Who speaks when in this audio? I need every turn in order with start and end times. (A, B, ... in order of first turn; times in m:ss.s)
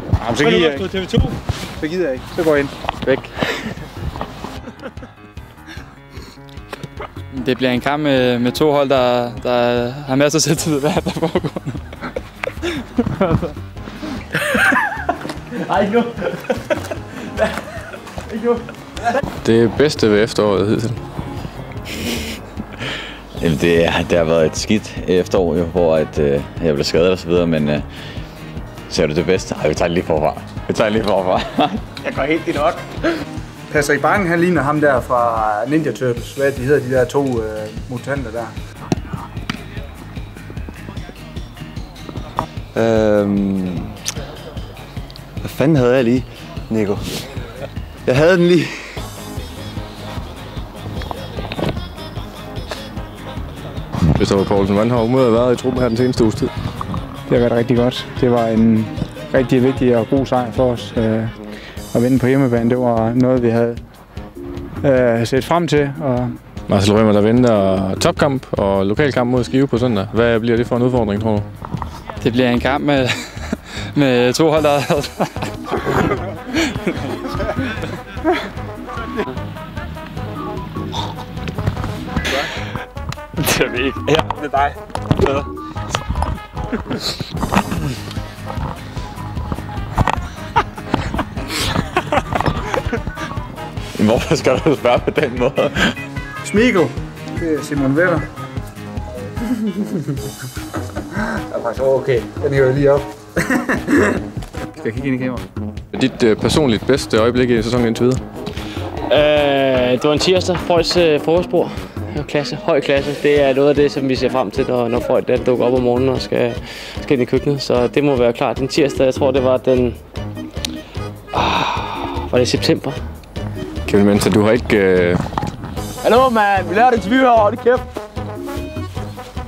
0:00.2-0:01.0 A
0:01.8-0:02.7 A
0:03.0-0:03.3 B
0:07.3-0:11.8 B
0:19.4-0:21.0 C
0:23.4-0:27.8 D
0:28.9-0:31.8 D
0:33.7-0:38.5 A
0:42.8-0:43.9 E
0:45.4-0:47.3 E
0:48.0-0:49.0 E
0:54.1-0:56.5 C
0:57.3-1:01.3 A
1:01.9-1:03.8 A
1:04.8-1:06.3 A
1:06.7-1:11.4 C
1:12.2-1:16.0 B
1:34.0-1:36.0 D
1:36.4-1:38.2 A
1:41.5-1:43.0 A
1:44.8-1:45.4 A
1:45.9-1:48.2 C
1:49.1-2:00.0 F
2:01.3-2:03.0 F
2:03.9-2:05.2 C
2:06.1-2:07.8 F